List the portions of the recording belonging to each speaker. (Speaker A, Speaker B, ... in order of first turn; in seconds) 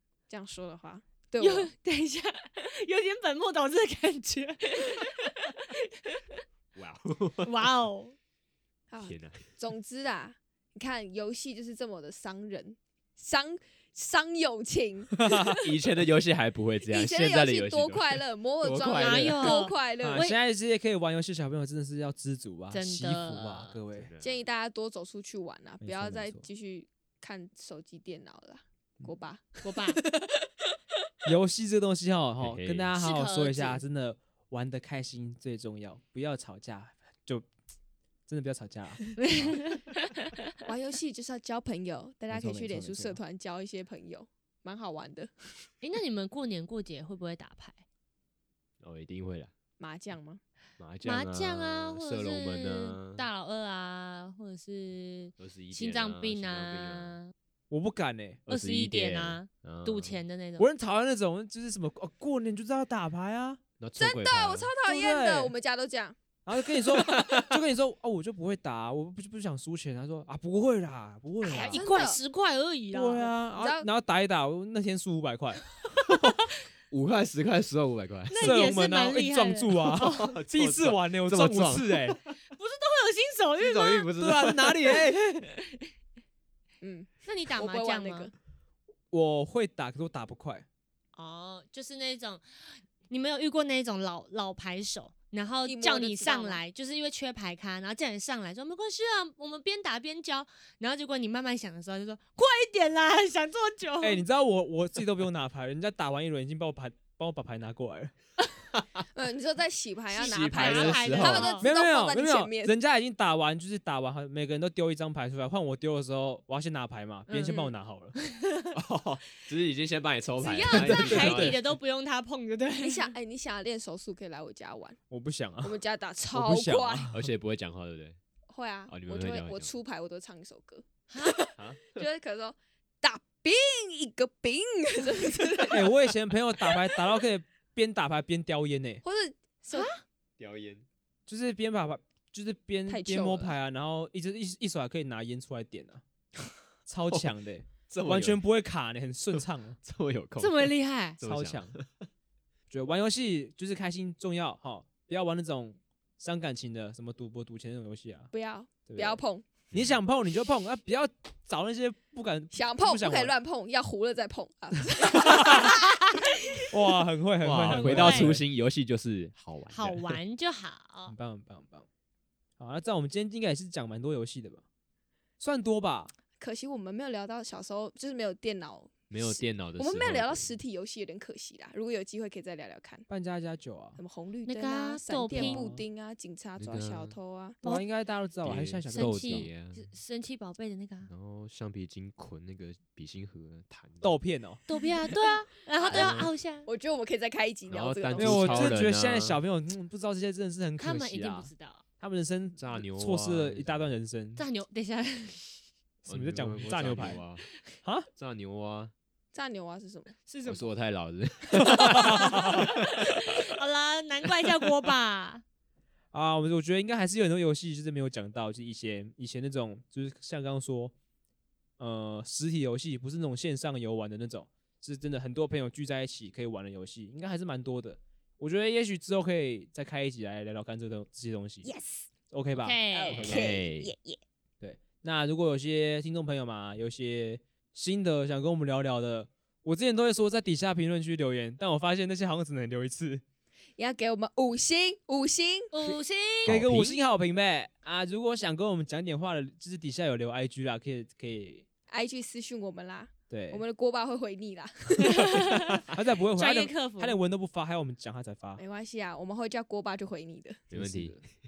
Speaker A: 0.3-1.7, 8.9-15.7, 16.9-20.3, 24.2-30.5, 40.6-45.7, 49.8-50.4, 64.0-66.2, 71.5-72.2, 73.5-73.9, 86.8-88.3, 95.7-96.6, 109.1-112.7, 117.4-117.7, 120.5-120.8, 122.8-125.0, 125.6-127.1, 128.5-135.9, 139.0-140.0, 142.9-143.6, 158.3-159.5, 162.5-165.9, 176.4-183.1, 184.0-187.6, 195.2-198.8, 209.3-210.1, 231.6-232.1, 232.9-234.2, 243.8-246.0, 251.9-255.8, 258.6-260.6
Speaker B: 1.4-6.4, 7.4-8.1, 18.8-20.4, 22.7-23.7, 29.6-30.0, 33.0-33.8, 39.2-40.5, 45.8-47.8, 51.0-57.3, 58.5-60.7, 71.4-73.3, 78.3-80.3, 82.5-84.1, 87.2-88.3, 91.1-104.2, 110.1-111.7, 117.3-117.5, 118.2-118.7, 120.4-123.1, 131.1-131.4, 139.7-140.0, 150.4-151.2, 165.4-165.7, 167.7-168.3, 169.7-171.2, 184.4-185.7, 188.9-191.1, 194.7-196.7, 200.8-201.8, 204.4-205.6, 210.2-210.7, 211.6-215.4, 232.6-233.5, 245.7-246.6, 255.1-255.8, 256.4-257.2
Speaker C: 6.7-7.5, 9.0-9.4, 15.6-19.6, 23.9-24.4, 32.4-32.9, 48.8-49.5, 50.8-53.2, 55.4-57.2, 58.5-60.2, 63.8-64.7, 66.9-67.5, 76.1-78.5, 80.0-82.2, 83.6-85.1, 110.2-111.6, 118.7-121.6, 127.1-128.2, 128.9-129.7, 131.6-132.1, 140.4-140.8, 147.9-148.4, 149.3-152.1, 159.7-160.0, 167.4-170.2, 179.1-180.6, 186.6-187.2, 188.4-189.8, 191.1-194.2, 195.9-196.3, 197.7-199.4, 202.6-203.9, 206.1-207.4, 208.2-208.9, 210.4-213.4, 233.2-233.9, 246.4-247.0, 260.7-261.2
Speaker D: 15.2-15.5, 20.0-24.1, 25.8-26.5, 31.2-37.5, 38.3-39.6, 42.3-43.2, 57.7-58.4, 60.6-63.6, 64.8-65.5, 66.4-71.9, 72.9-75.6, 78.4-82.2, 84.2-85.4, 89.1-90.7, 104.0-108.1, 111.6-118.2, 120.7-121.6, 125.1-125.8, 126.3-127.3, 135.7-139.0, 141.3-146.0, 146.8-149.8, 151.2-151.7, 152.7-158.3, 158.8-159.2, 159.7-163.3, 166.7-168.4, 171.1-171.8, 172.6-174.6, 175.4-176.1, 183.1-184.0, 185.3-185.8, 187.6-189.5, 194.0-194.6, 198.2-204.4, 206.0-207.2, 211.8-212.4, 216.1-220.9, 221.8-231.7, 232.3-233.5, 234.6-243.2, 246.4-251.6, 253.3-253.6, 255.9-258.6, 260.7-261.2